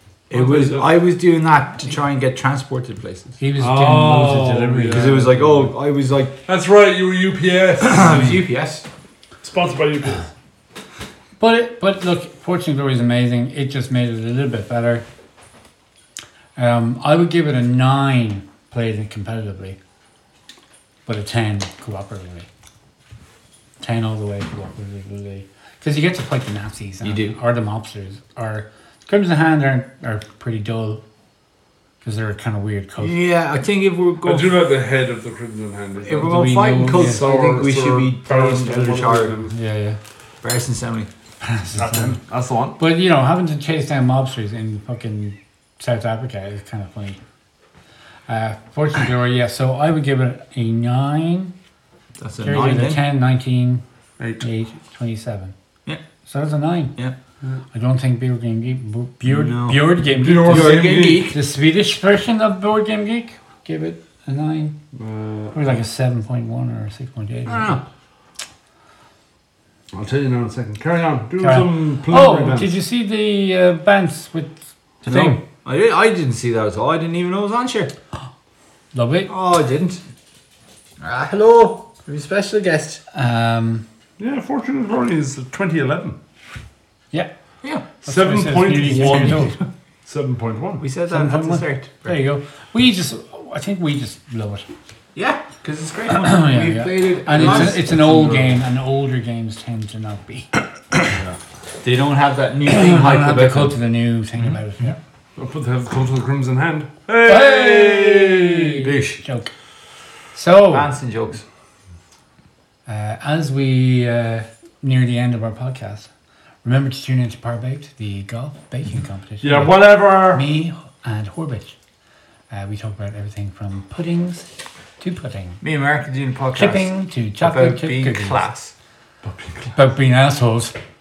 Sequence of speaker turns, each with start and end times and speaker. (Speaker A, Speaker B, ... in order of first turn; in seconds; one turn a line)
Speaker A: 0.3-3.4
Speaker B: 0.3-0.9
Speaker C: 3.4-5.3
Speaker B: 3.6-5.7
Speaker A: 4.9-6.4
Speaker B: 6.5-8.4
Speaker A: 7.8-8.9
Speaker B: 9.4-10.3
Speaker C: 11.4-15.1
Speaker C: 16.6-19.8
Speaker C: 21.1-22.5
Speaker C: 23.8-31.0
Speaker A: 27.0-27.4
Speaker C: 32.0-33.2
Speaker A: 33.0-34.5
Speaker B: 34.2-39.5
Speaker A: 36.0-39.4
Speaker C: 36.2-37.3
Speaker C: 39.5-40.0
Speaker A: 40.4-41.1
Speaker C: 41.4-42.1
Speaker B: 41.8-42.8
Speaker C: 42.8-47.2
Speaker C: 48.3-51.5
Speaker A: 52.2-53.0
Speaker C: 52.4-53.8
Speaker C: 54.4-55.5
Speaker C: 56.3-56.9
Speaker C: 57.7-64.8
Speaker A: 59.2-61.4
Speaker B: 60.1-61.3
Speaker B: 64.9-65.8
Speaker C: 65.5-67.8
Speaker A: 67.5-67.8
Speaker B: 69.9-72.7
Speaker C: 71.4-75.4
Speaker A: 75.1-77.9
Speaker C: 78.9-79.3
Speaker A: 79.3-80.0
Speaker A: 81.0-83.0
Speaker C: 83.1-83.8
Speaker B: 84.2-86.2
Speaker C: 88.0-89.6
Speaker B: 88.0-90.8
Speaker A: 90.8-92.2
Speaker C: 91.1-94.7
Speaker A: 95.2-97.9
Speaker C: 96.1-101.0
Speaker B: 97.3-98.6
Speaker B: 101.1-101.4
Speaker A: 101.8-103.7
Speaker C: 102.7-105.0
Speaker B: 105.4-108.8
Speaker C: 107.3-109.5
Speaker A: 108.5-109.2
Speaker C: 110.3-110.9
Speaker A: 110.7-111.4
Speaker C: 112.9-116.1
Speaker C: 116.6-121.8
Speaker B: 119.4-120.5
Speaker C: 122.5-124.5
Speaker C: 125.0-125.6
Speaker A: 125.6-128.7
Speaker C: 126.6-128.4
Speaker B: 129.2-129.8
Speaker C: 129.8-130.8